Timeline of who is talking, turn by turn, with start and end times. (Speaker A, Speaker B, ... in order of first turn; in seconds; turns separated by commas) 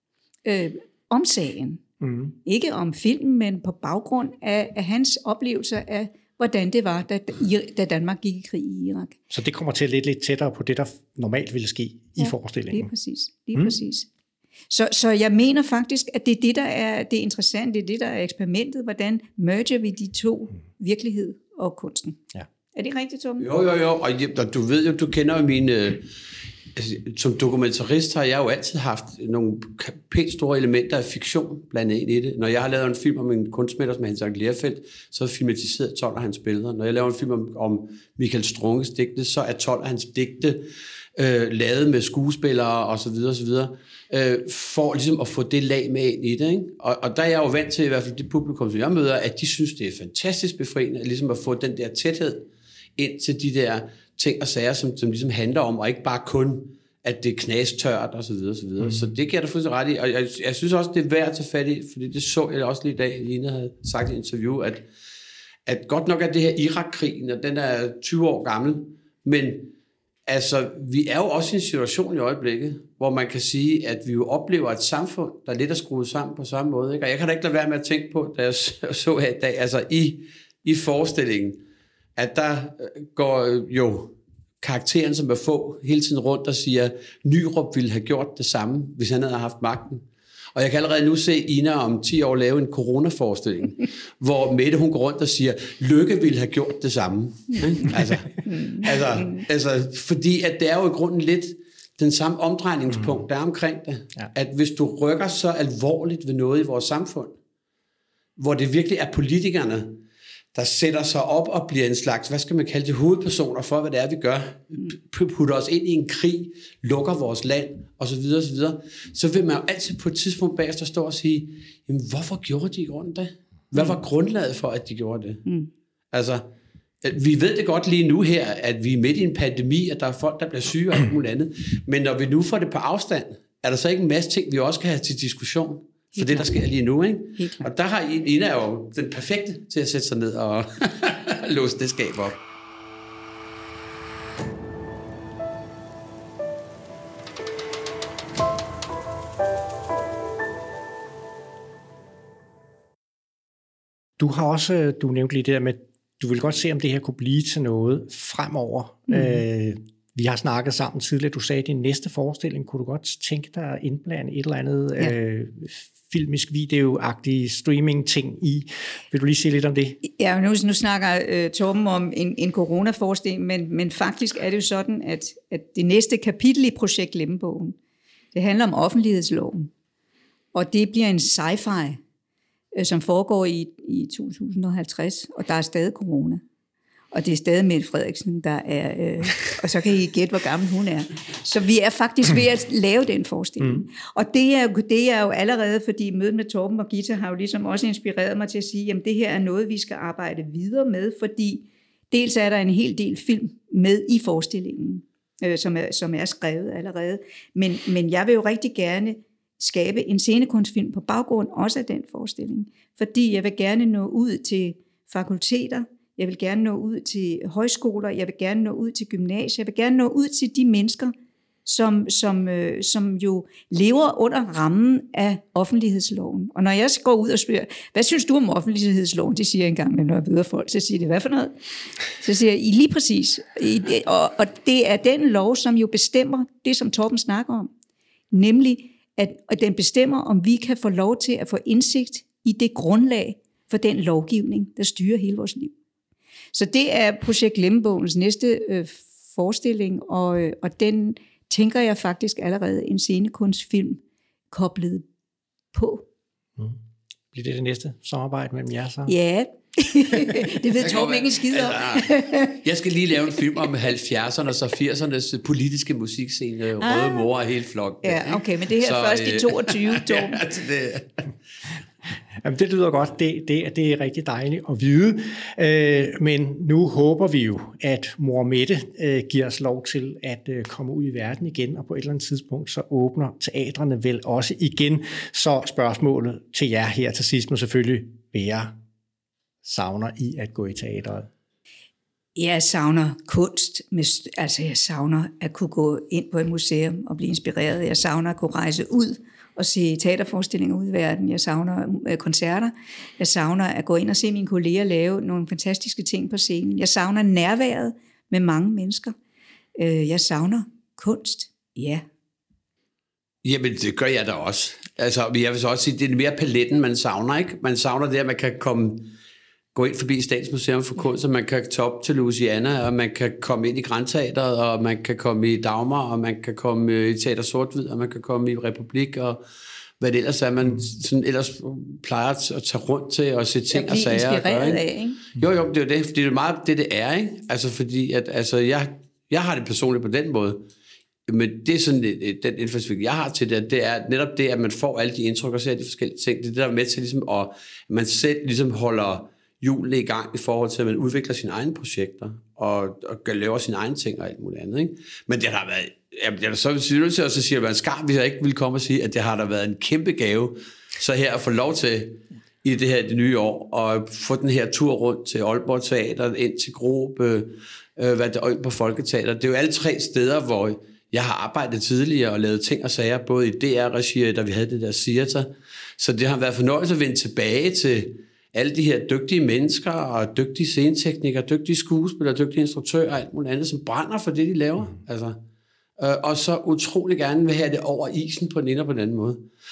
Speaker A: 0.4-1.8, Speaker B: 2.0-2.3, Speaker A: 2.4-9.2, Speaker B: 9.3-12.9, Speaker A: 12.2-14.1, Speaker A: 14.7-22.2, Speaker A: 22.7-23.5, Speaker C: 23.4-26.1, Speaker C: 26.7-64.8, Speaker C: 65.7-69.7, Speaker C: 70.3-81.6, Speaker C: 82.2-107.3, Speaker A: 98.5-98.8, Speaker C: 108.4-110.0, Speaker C: 110.5-125.4, Speaker C: 126.1-126.4, Speaker C: 127.0-142.4, Speaker A: 136.2-136.6, Speaker A: 137.4-137.7, Speaker B: 154.2-170.0, Speaker A: 159.1-159.4, Speaker A: 170.0-177.8, Speaker A: 178.3-179.7, Speaker A: 180.5-182.0, Speaker A: 182.7-186.4, Speaker A: 187.1-221.1, Speaker A: 221.6-231.5, Speaker A: 232.2-237.7, Speaker A: 238.3-245.7, Speaker A: 246.5-255.1, Speaker A: 255.7-256.1, Speaker B: 257.3-259.1, Speaker A: 259.1-262.6, Speaker C: 260.8-271.1, Speaker A: 266.8-267.3, Speaker A: 268.0-270.6, Speaker B: 272.4-288.7, Speaker B: 289.6-291.3, Speaker A: 292.4-309.1, Speaker A: 309.8-312.0, Speaker C: 313.4-319.1, Speaker C: 319.7-329.4, Speaker C: 330.0-340.6, Speaker A: 333.7-335.2, Speaker C: 341.3-385.4, Speaker C: 386.0-389.4